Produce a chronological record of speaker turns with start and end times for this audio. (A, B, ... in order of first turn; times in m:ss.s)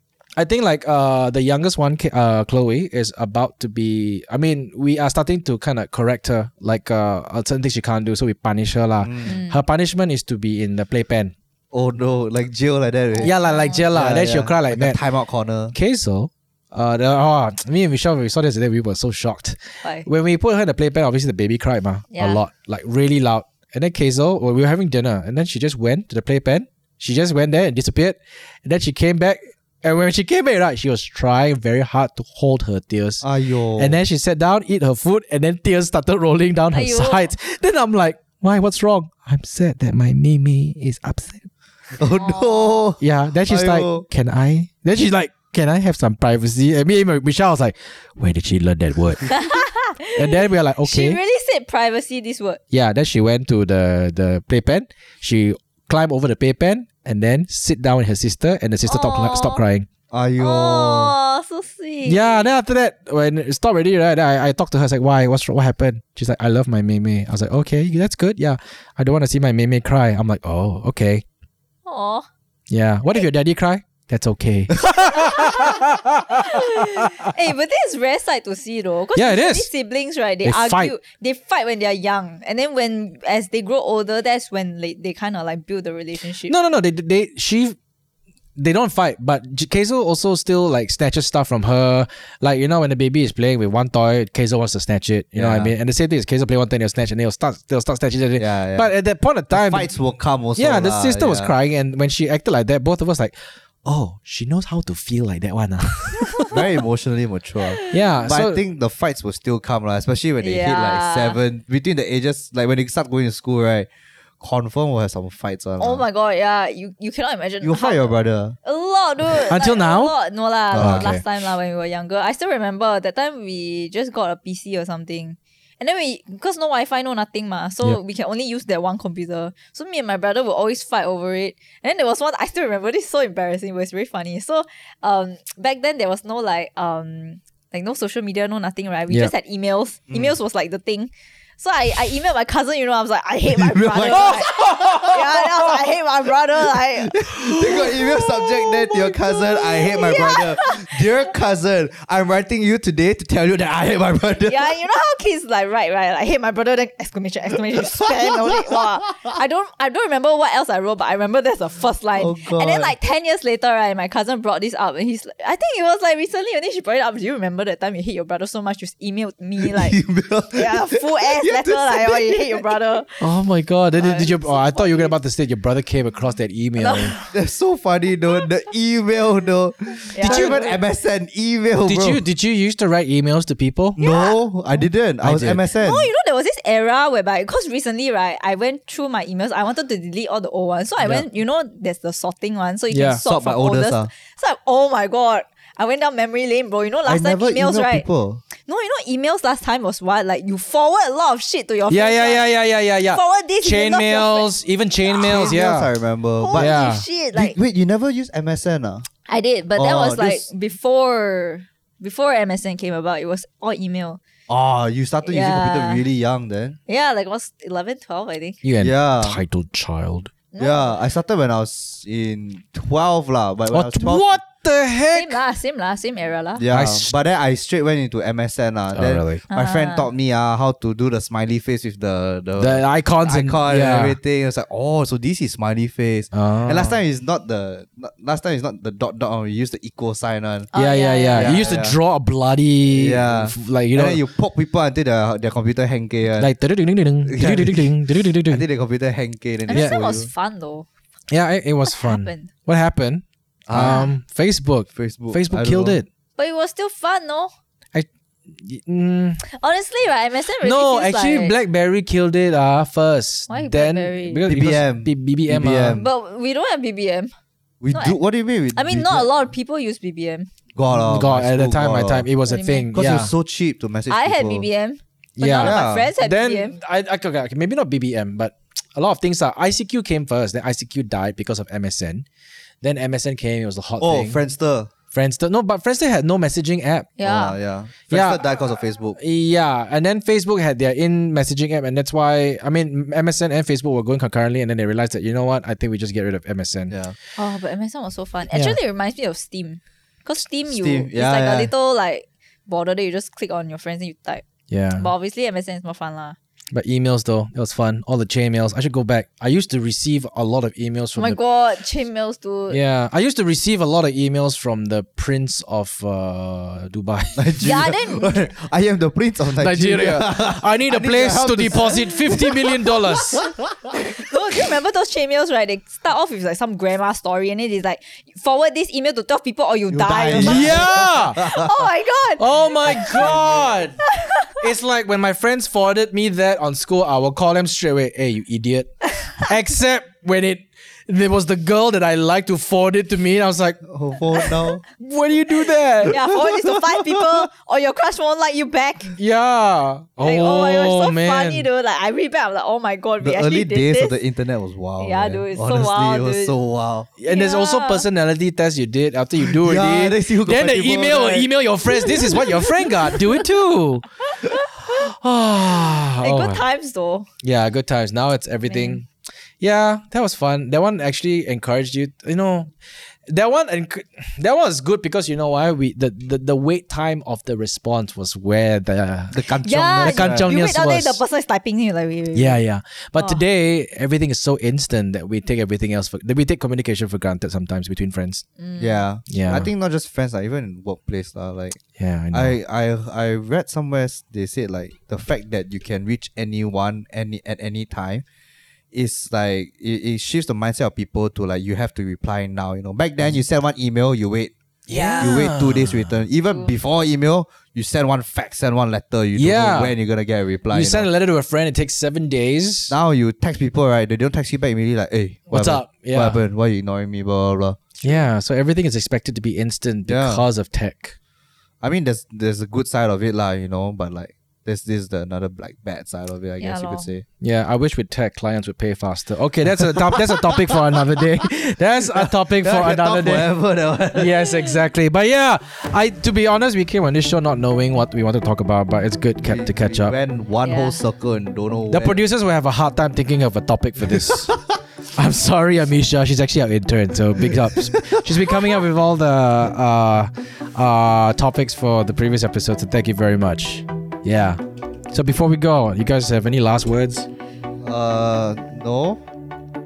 0:00.4-0:11.3 A
0:09.0-0:09.3 B
0:09.2-0:09.6 C
0:11.7-0:13.3 B
0:13.2-0:13.9 C
0:13.2-0:15.0 A
0:13.9-0:15.7 B
0:15.7-0:33.2 A
0:22.1-0:22.4 C
0:33.2-0:34.0 B
0:33.8-0:41.5 A
0:36.7-0:37.3 C
0:42.0-0:44.0 B
0:42.1-0:42.9 C
0:43.0-0:49.4 A
0:49.3-0:52.6 C
0:50.1-0:51.2 A
0:52.7-0:59.9 A
0:58.9-0:59.6 C
1:00.1-1:01.1 B
1:00.4-1:02.5 C
1:02.0-1:11.2 A
1:11.8-1:12.3 C
1:12.7-1:17.3 A
1:15.1-1:26.5 C
1:19.2-1:19.7 A
1:20.4-1:20.9 A
1:26.5-1:27.8 A
1:28.6-1:39.9 A
1:35.4-1:35.7 B
1:38.4-1:38.9 B
1:39.5-1:41.5 B
1:40.6-1:46.5 A
1:46.5-1:53.9 B
1:47.6-1:48.2 C
1:47.9-1:48.6 A
1:50.4-1:51.4 C
1:54.4-1:56.0 B
1:55.8-2:31.1 C
1:57.6-1:58.5 B
1:59.5-2:00.1 A
2:00.7-2:01.2 A
2:00.7-2:01.1 B
2:20.1-2:20.3 B
2:23.5-2:25.7 B
2:24.5-2:25.0 A
2:26.6-2:34.8 B
2:34.4-2:50.0 C
2:37.7-2:39.2 B
2:42.2-2:42.9 B
2:49.6-2:52.7 B
2:50.5-2:53.2 C
2:53.2-2:57.2 A
2:54.0-2:55.2 C
2:56.8-2:57.3 C
2:57.3-3:02.2 B
3:00.1-3:00.8 C
3:00.2-3:00.6 A
3:01.8-3:04.0 A
3:04.0-3:04.4 C
3:04.0-3:06.1 B
3:05.2-3:05.6 A
3:05.8-3:18.0 C
3:12.9-3:13.2 A
3:13.2-3:14.1 B
3:17.0-3:18.4 B
3:18.6-3:22.5 C
3:21.9-3:25.9 A
3:23.1-3:24.5 C
3:25.1-3:25.6 C
3:25.1-3:26.7 B
3:26.4-3:27.6 C
3:26.5-3:27.0 A
3:27.3-3:29.1 B
3:29.3-3:34.2 C
3:29.7-3:30.5 B
3:34.5-3:36.8 B
3:35.2-3:36.0 C
3:36.9-3:38.6 C
3:38.6-3:40.3 A
3:38.8-3:39.4 B
3:40.5-3:40.9 C
3:40.6-3:44.4 B
3:43.7-3:45.4 A
3:45.1-3:46.6 C
3:46.6-4:00.7 B
3:46.7-3:47.1 A
3:48.9-3:49.4 A
3:49.5-3:50.1 C
3:52.6-3:54.2 A
3:56.3-3:57.0 A
4:00.7-4:01.6 C
4:00.7-4:04.2 A
4:01.3-4:02.0 B
4:02.9-4:06.5 B
4:06.4-4:08.6 A
4:07.2-4:10.3 B
4:09.7-4:10.9 C
4:11.3-4:16.1 A
4:11.9-4:12.5 C
4:13.7-4:14.1 B
4:13.8-4:14.1 C
4:14.9-4:16.0 B
4:16.4-4:17.5 C
4:17.9-4:19.4 A
4:19.4-4:21.5 C
4:20.6-4:26.0 A
4:23.5-4:24.4 C
4:24.4-4:26.1 B
4:26.0-4:27.3 C
4:27.8-4:29.3 B
4:27.9-4:28.2 C
4:28.7-4:30.5 C
4:30.8-4:32.3 B
4:31.1-4:33.3 A
4:32.4-4:32.9 C
4:32.9-4:34.6 B
4:34.1-4:36.8 C
4:35.4-4:42.2 A
4:35.6-4:36.1 B
4:42.8-4:44.4 A
4:44.0-4:44.9 B
4:45.1-4:47.1 A
4:47.2-4:47.6 C
4:47.2-4:49.2 B
4:48.1-4:48.4 A
4:49.2-4:56.9 A
4:56.9-4:57.2 B
4:57.4-5:04.4 C
4:58.5-4:58.8 A
5:00.7-5:01.7 B
5:04.7-5:05.1 A
5:05.0-5:06.4 C
5:06.7-5:11.4 A
5:11.2-5:12.8 C
5:12.7-5:17.4 A
5:17.4-5:24.6 B
5:17.6-5:18.4 C
5:19.6-5:23.4 A
5:23.9-5:33.4 C
5:29.9-5:31.9 B
5:30.4-5:31.4 A
5:32.4-5:34.0 A
5:32.9-5:33.6 B
5:34.2-5:34.6 C
5:34.6-5:43.8 A
5:43.8-5:44.8 B
5:45.0-5:46.2 A
5:46.0-5:49.2 C
5:46.1-5:47.5 B
5:49.2-5:51.6 A
5:50.2-5:54.2 C
5:53.2-5:57.1 B
5:55.0-5:56.5 C
5:57.2-6:06.6 A
5:57.3-5:58.0 C
5:59.4-6:02.4 B
6:04.4-6:05.0 C
6:06.2-6:07.3 C
6:07.4-6:09.1 A
6:08.7-6:09.0 C
6:09.6-6:12.7 A
6:13.2-6:19.4 A
6:19.3-6:20.5 B
6:19.6-6:22.6 C
6:20.0-6:21.2 A
6:22.3-6:28.4 A
6:28.6-6:29.0 C
6:28.8-6:31.8 B
6:29.3-6:29.7 A
6:32.0-6:32.6 A
6:32.3-6:38.2 B
6:38.9-6:44.5 B
6:44.9-6:46.2 A
6:44.9-6:45.4 C
6:45.2-6:51.1 B
6:49.4-6:49.9 A
6:50.7-6:53.0 A
6:52.9-6:57.9 B
6:55.5-6:56.4 A
6:58.0-7:01.2 A
7:00.0-7:00.4 B
7:01.8-7:07.2 B
7:06.6-7:07.1 C
7:07.4-7:13.5 A
7:09.7-7:11.4 B
7:12.1-7:14.4 B
7:14.1-7:20.1 A
7:14.4-7:14.8 C
7:19.4-7:22.2 B
7:20.6-7:21.0 C
7:21.9-7:24.6 A
7:25.2-7:34.6 A
7:35.1-7:37.3 A
7:37.8-7:39.2 B